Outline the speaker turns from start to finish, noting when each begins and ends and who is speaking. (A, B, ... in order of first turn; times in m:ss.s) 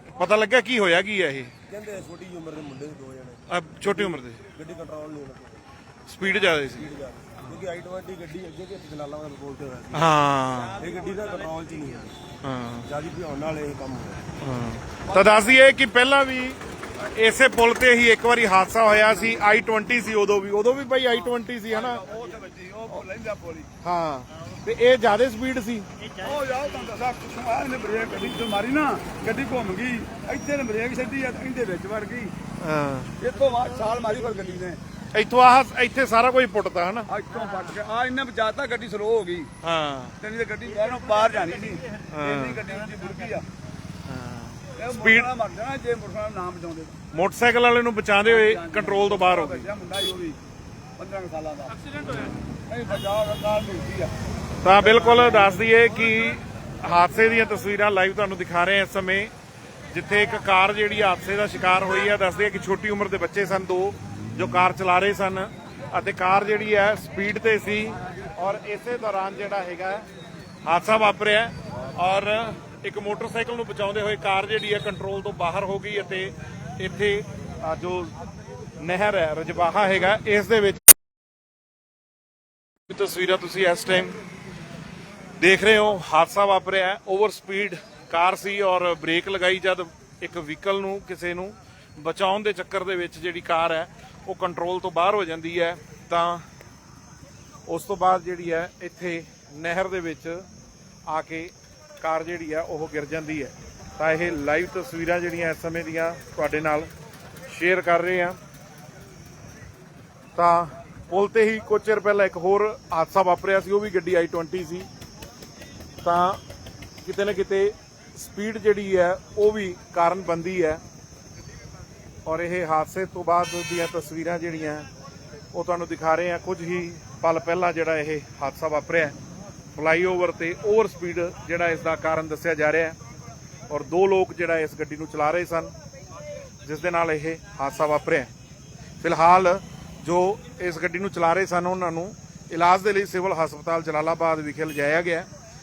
0:00.2-0:01.5 A
0:01.7-0:05.6 B
0:03.5-0:04.4 A
0:06.1-0:06.9 A
0:06.8-0:10.0 B
0:09.9-0:10.8 A
0:10.8-0:12.2 B
0:12.4-0:12.9 A
0:12.9-0:14.3 B
0:14.4-0:22.0 A
0:15.1-0:15.5 C
0:21.7-0:23.7 C
0:23.8-0:25.9 A
0:26.2-0:32.3 C
0:32.6-0:33.1 A
0:33.2-0:34.8 C
0:35.1-0:37.1 A
0:37.1-0:39.5 C
0:39.6-0:40.2 A
0:40.2-0:43.4 C
0:42.1-0:42.6 A
0:44.1-0:45.3 A
0:44.8-0:47.0 C
0:47.1-0:49.7 A
0:48.2-0:50.4 C
0:51.0-0:51.8 C
0:52.0-0:52.4 A
0:52.7-0:54.1 C
0:54.6-0:59.3 A
0:54.8-0:55.6 C
0:59.9-1:10.1 A
1:10.6-1:18.1 A
1:18.8-1:20.9 A
1:22.9-1:24.2 A
1:25.4-1:36.4 A
1:37.7-1:40.4 A
1:41.1-1:46.9 A
1:47.5-1:48.4 A
1:50.4-1:54.9 A
1:56.0-1:56.4 A
1:57.0-2:00.8 A
2:02.2-2:04.9 A
2:05.5-2:09.2 A
2:09.8-2:13.0 A
2:13.7-2:15.7 A
2:16.6-2:18.3 A
2:19.0-2:25.3 A